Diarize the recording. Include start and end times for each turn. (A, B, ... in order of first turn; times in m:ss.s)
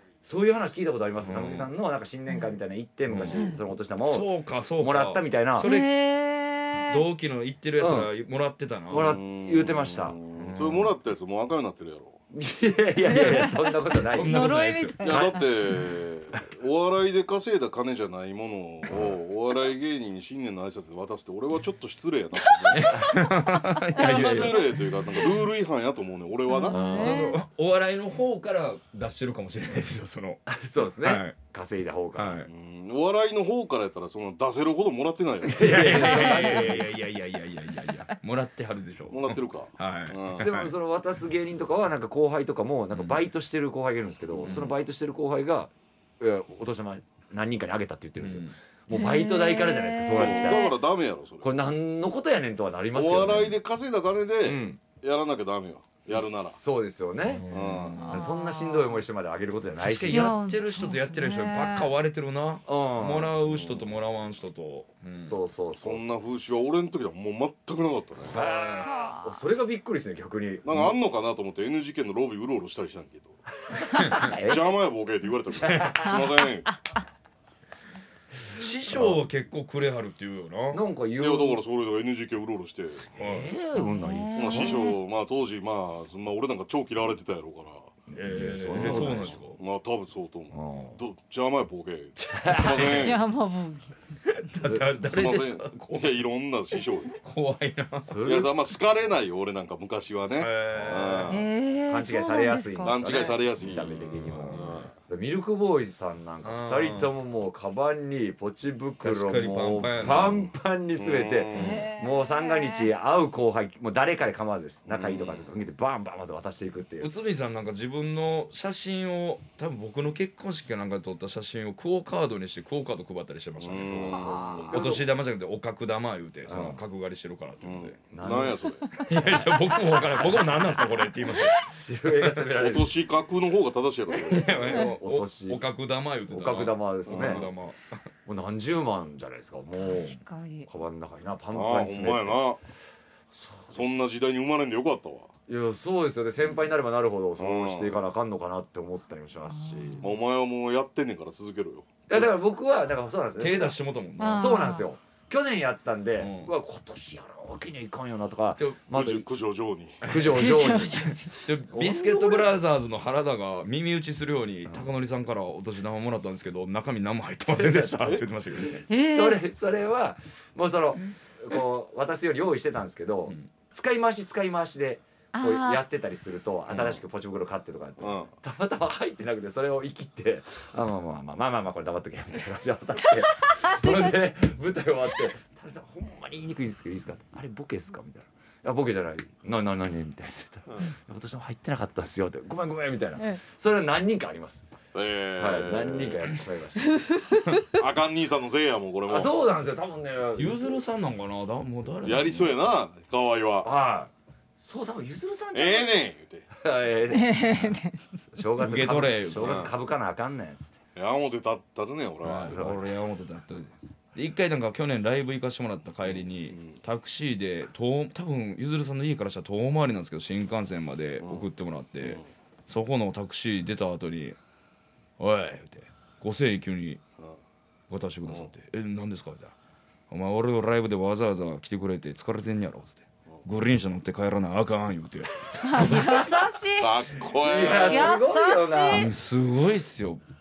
0:00.2-0:05.7 A
0:01.2-0:01.7 B
0:02.3-0:02.5 C
0:03.1-0:03.4 B
0:03.3-0:03.6 C
0:04.0-0:06.0 B
0:05.6-0:07.0 C
0:06.8-0:09.2 B
0:07.8-0:08.1 A
0:08.9-0:10.2 A
0:09.0-0:12.2 D
0:10.4-0:10.9 B
0:12.3-0:14.5 A
0:13.0-0:15.8 C
0:14.0-0:15.1 B
0:15.0-0:22.9 D
0:22.6-0:23.3 C
0:22.7-0:24.7 B
0:23.9-0:25.3 C
0:23.9-0:27.1 D
0:26.5-0:27.4 C
0:26.7-0:27.4 A
0:26.7-0:31.4 B
0:30.5-0:32.5 A
0:32.2-0:32.5 B
0:32.5-0:35.8 D
0:35.4-0:37.0 A
0:35.6-0:40.7 B
0:35.8-0:36.8 C
0:39.1-0:40.5 D
0:40.4-0:50.8 A
0:42.9-0:43.2 B
0:44.4-0:44.7 B
0:48.2-0:48.5 B
0:48.9-0:50.8 C
0:50.1-0:51.6 D
0:51.4-0:53.6 A
0:52.9-0:56.6 D
0:54.4-0:54.8 A
0:56.1-0:57.4 A
0:57.2-0:58.3 B
0:57.5-0:58.1 D
0:58.0-0:59.0 C
0:58.0-1:00.4 A
0:59.8-1:05.4 B
1:00.1-1:01.9 C
1:02.7-1:03.4 A
1:03.5-1:03.8 D
1:05.2-1:06.1 A
1:05.8-1:08.4 D
1:08.3-1:11.0 A
1:08.3-1:08.8 B
1:08.6-1:09.4 C
1:10.6-1:13.4 D
1:13.7-1:14.7 A
1:14.1-1:16.7 D
1:15.5-1:16.2 A
1:16.1-1:16.8 C
1:18.5-1:20.8 B
1:18.9-1:19.2 A
1:20.7-1:21.6 A
1:21.2-1:23.1 D
1:23.1-1:24.9 A
1:23.2-1:23.5 B
1:23.7-1:25.0 C
1:24.3-1:27.9 D
1:28.1-1:29.4 A
1:28.1-1:29.6 B
1:28.8-1:33.2 D
1:30.5-1:31.0 A
1:32.2-1:33.1 A
1:32.5-1:33.9 C
1:34.2-1:36.2 B
1:35.0-1:37.2 D
1:37.1-1:38.2 B
1:38.0-1:38.5 A
1:38.2-1:41.5 D
1:40.4-1:41.4 B
1:41.3-1:43.4 C
1:41.9-1:57.1 A
1:42.8-1:44.9 D
1:46.4-1:47.1 B
1:49.0-1:50.5 B
1:50.0-1:51.8 D
1:51.5-1:52.9 C
1:54.9-1:55.5 D
1:57.0-2:08.0 B
2:03.6-2:04.8 D
2:03.7-2:05.0 A
2:04.2-2:04.6 C
2:06.4-2:06.8 A
2:07.6-2:08.9 D
2:08.1-2:10.8 A
2:09.0-2:11.7 B
2:11.5-2:12.9 A
2:12.6-2:14.8 D
2:14.2-2:18.0 B
2:14.5-2:15.6 A
2:16.3-2:17.4 A
2:17.1-2:17.5 D
2:18.2-2:22.5 A
2:19.7-2:20.7 C
2:21.5-2:22.6 D
2:23.3-2:24.0 A
2:23.7-2:25.3 D
2:25.5-2:30.1 A
2:27.4-2:28.0 D
2:29.5-2:30.1 C
2:30.0-2:32.3 D
2:32.1-2:39.3 A
2:33.4-2:34.7 B
2:34.2-2:34.9 C
2:36.2-2:36.5 B
2:38.9-2:40.0 D
2:40.0-2:42.5 A
2:40.0-2:40.6 B
2:40.3-2:41.4 C
2:41.3-2:48.8 B
2:47.5-3:14.7 A
2:48.9-2:49.4 C
2:55.3-2:55.8 C
2:56.7-2:57.0 B
2:58.0-2:58.3 D
3:03.4-3:04.3 C
3:14.9-3:16.3 D
3:15.4-3:17.2 A
3:17.0-3:17.6 C
3:17.6-3:19.4 D
3:19.0-3:20.8 A
3:20.3-3:22.6 B
3:22.0-3:23.7 D
3:23.6-3:27.8 A
3:25.5-3:26.5 D
3:27.1-3:28.2 C
3:28.3-3:30.7 A
3:28.6-3:29.6 B
3:29.4-3:29.7 D
3:31.0-3:32.6 D
3:32.2-3:44.4 B
3:32.5-3:32.9 A
3:36.0-3:36.8 D
3:45.2-3:47.0 B
3:47.9-3:49.5 B
3:50.1-3:56.4 B
3:55.6-3:57.1 C
3:56.8-3:58.2 D
3:57.4-3:59.1 A
3:57.6-3:59.1 C
3:58.9-4:00.2 B